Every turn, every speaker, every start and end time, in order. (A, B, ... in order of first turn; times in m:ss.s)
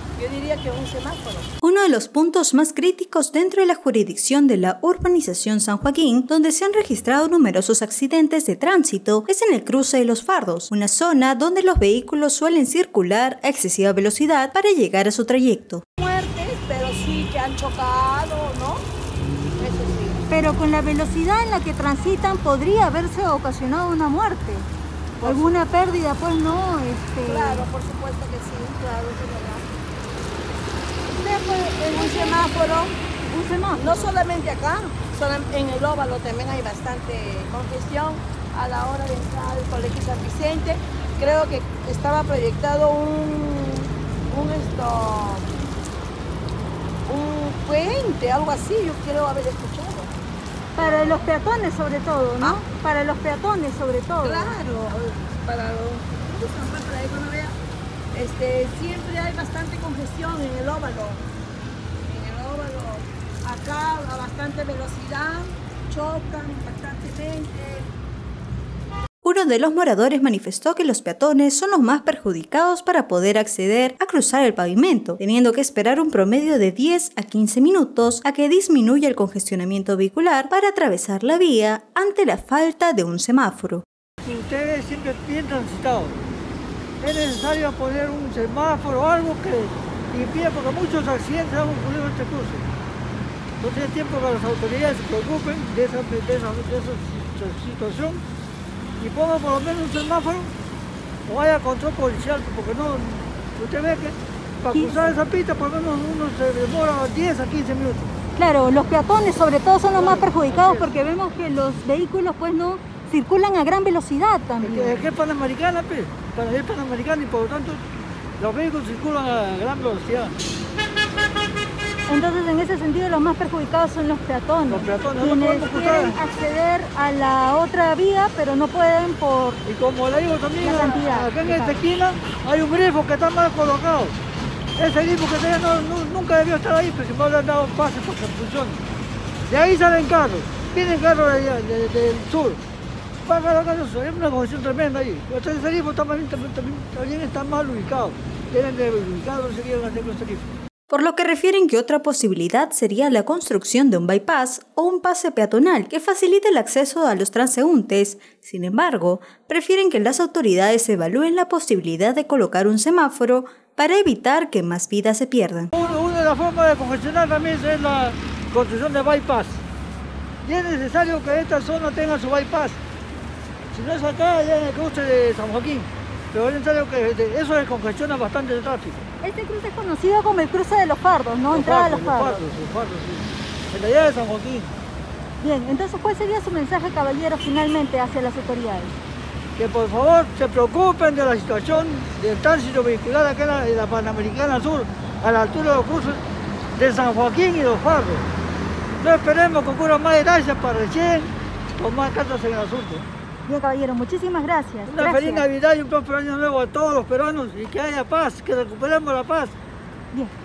0:00.2-0:01.5 A
0:01.6-0:15.8 B
0:16.0-0:18.9 A
0:19.6-0:20.2 A
0:20.3-0:24.7 C
0:25.2-0:25.6 A
0:25.2-0:27.7 C
0:27.2-0:29.7 A
0:31.1-0:32.5 C
0:31.9-0:33.0 A
0:33.3-0:34.1 C
0:33.7-0:45.5 A
0:47.1-0:50.1 A
0:50.8-0:54.5 C
0:50.8-0:51.3 A
0:54.2-0:57.6 A
0:58.1-1:01.3 A
1:02.0-1:07.9 A
1:09.2-1:23.8 B
1:24.2-1:26.2 D
1:27.0-1:32.7 D
1:33.6-1:38.2 D
1:39.0-1:40.6 D
1:41.3-1:48.1 D
1:44.7-1:45.2 C
1:48.4-1:55.1 C
1:49.9-1:50.9 D
1:54.6-2:00.4 D
2:02.1-2:09.6 C
2:04.7-2:06.2 D
2:09.7-2:14.2 D
2:10.6-2:11.9 C
2:14.8-2:18.8 D
2:19.5-2:22.6 D
2:23.2-2:30.5 D
2:30.9-2:45.7 B
2:45.7-2:49.6 D
2:50.4-2:52.8 D
2:53.7-2:59.0 D
2:59.2-3:02.4 C
3:01.5-3:04.7 D
3:05.4-3:09.0 C
3:09.6-3:16.2 D
3:16.8-3:18.3 D
3:19.0-3:23.1 D
3:23.5-3:25.4 C
3:24.9-3:29.6 D